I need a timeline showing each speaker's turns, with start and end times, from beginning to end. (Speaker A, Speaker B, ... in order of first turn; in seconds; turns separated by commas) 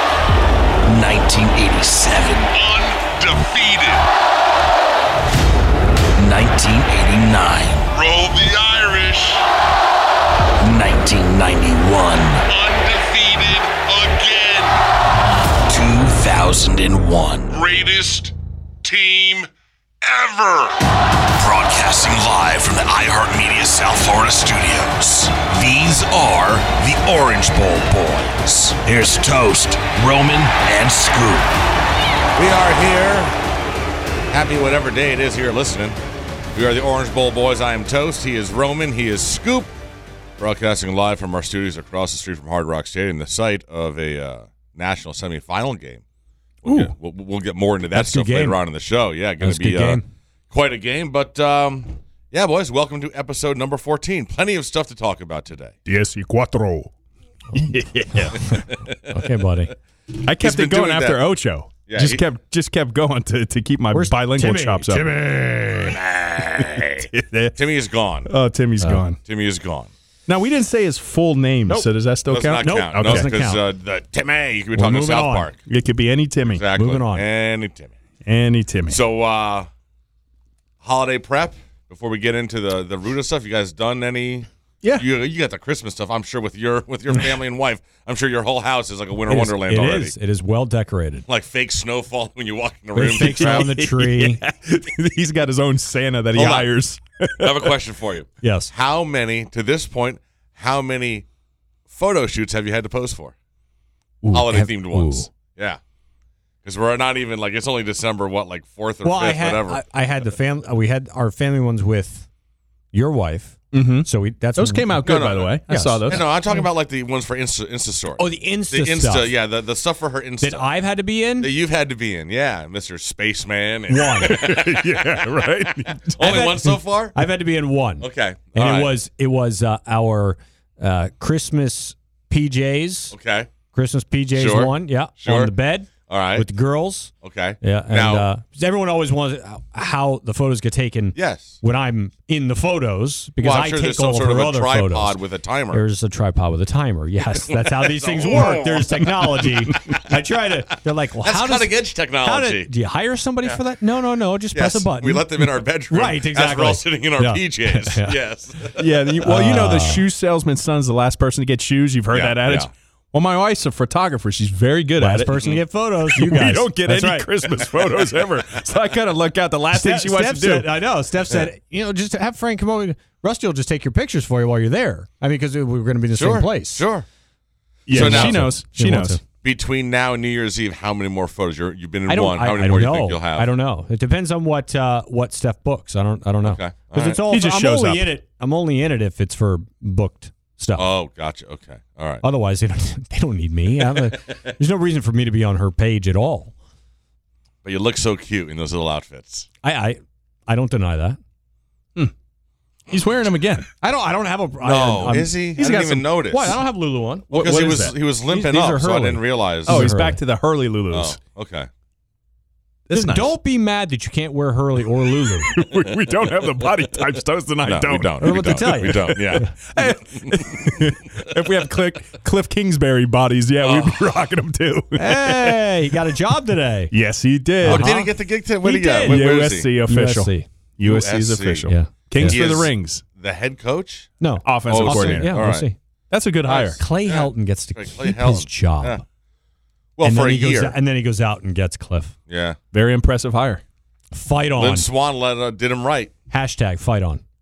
Speaker A: 0.8-2.5, Speaker B: 2.5-4.1, Speaker A: 6.2-7.9, Speaker B: 7.9-9.5, Speaker A: 10.6-12.4, Speaker B: 12.5-14.8, Speaker A: 15.7-17.6, Speaker B: 17.5-18.3, Speaker B: 18.8-19.5, Speaker B: 20.0-20.7, Speaker A: 21.4-31.5, Speaker C: 32.4-33.3, Speaker C: 34.3-36.0, Speaker C: 36.5-39.7, Speaker C: 40.4-46.0, Speaker C: 46.6-55.7, Speaker D: 47.9-48.6, Speaker D: 49.4-50.0, Speaker E: 55.9-56.9, Speaker E: 57.5-58.6, Speaker D: 58.4-59.7, Speaker C: 58.5-59.2, Speaker E: 60.1-65.1, Speaker C: 60.4-61.3, Speaker C: 61.9-62.2, Speaker D: 63.9-66.0, Speaker C: 65.9-68.3, Speaker E: 66.6-67.5, Speaker E: 68.2-69.2, Speaker C: 69.2-69.9, Speaker E: 70.3-73.3, Speaker C: 72.3-75.6, Speaker D: 72.6-73.6, Speaker D: 74.7-75.5, Speaker E: 75.7-76.6, Speaker C: 76.4-77.9, Speaker D: 76.7-77.2, Speaker E: 78.2-79.0, Speaker C: 78.9-79.7, Speaker C: 80.8-90.1, Speaker D: 89.3-91.2, Speaker C: 91.3-93.7, Speaker D: 92.9-94.4, Speaker E: 93.2-97.8, Speaker C: 96.3-96.7, Speaker C: 97.4-101.2, Speaker D: 98.4-98.7, Speaker C: 101.9-103.3, Speaker E: 104.2-105.2, Speaker C: 104.3-105.8, Speaker D: 104.5-105.3, Speaker C: 106.6-109.8, Speaker D: 109.0-112.3, Speaker D: 112.9-115.1, Speaker E: 113.7-116.2, Speaker C: 115.0-120.7, Speaker D: 115.7-116.6, Speaker D: 118.2-119.3, Speaker D: 120.4-121.5, Speaker C: 121.4-127.2, Speaker D: 123.9-124.4, Speaker E: 124.2-126.2, Speaker D: 126.2-133.1, Speaker C: 128.0-128.9, Speaker C: 133.1-133.5, Speaker D: 133.7-137.1, Speaker C: 134.3-135.5, Speaker C: 136.1-136.5, Speaker C: 137.2-138.2, Speaker D: 137.6-145.2, Speaker C: 141.2-141.6, Speaker C: 143.4-145.8, Speaker D: 145.7-158.2, Speaker C: 147.6-150.2, Speaker C: 151.2-152.7, Speaker C: 154.5-158.9, Speaker E: 158.8-165.3, Speaker D: 159.2-160.0, Speaker C: 162.1-162.7, Speaker D: 165.0-167.3, Speaker E: 166.1-170.7, Speaker D: 169.7-176.8, Speaker C: 176.2-177.1, Speaker C: 177.8-178.5, Speaker E: 177.9-179.2, Speaker D: 177.9-179.2, Speaker C: 179.4-183.5, Speaker D: 182.1-190.9, Speaker C: 186.4-187.2, Speaker E: 187.3-188.0, Speaker C: 190.8-192.2, Speaker D: 192.2-196.5, Speaker C: 197.6-199.5, Speaker D: 199.6-201.2, Speaker E: 202.9-203.7, Speaker D: 203.8-207.4, Speaker C: 204.6-206.6, Speaker E: 205.6-205.8, Speaker E: 207.3-207.9, Speaker C: 207.3-209.9, Speaker D: 208.3-210.2, Speaker E: 209.7-211.2, Speaker C: 210.9-211.7, Speaker E: 212.9-213.3, Speaker D: 212.9-215.6, Speaker E: 215.2-225.6, Speaker C: 217.6-220.7, Speaker D: 218.2-219.5, Speaker C: 223.6-224.0, Speaker D: 224.9-226.9, Speaker E: 226.9-227.9, Speaker D: 227.6-229.3, Speaker C: 227.7-229.7, Speaker E: 229.0-233.0, Speaker D: 229.9-230.5, Speaker C: 230.8-231.7, Speaker D: 231.7-232.4, Speaker C: 232.2-235.7, Speaker D: 234.2-235.8, Speaker E: 234.4-235.3, Speaker E: 236.1-236.8, Speaker C: 236.4-239.0, Speaker D: 236.8-239.0, Speaker C: 240.0-240.7, Speaker D: 240.0-242.1, Speaker C: 242.3-242.6, Speaker E: 242.7-243.6, Speaker D: 244.1-244.8, Speaker C: 244.6-246.1, Speaker D: 246.3-247.2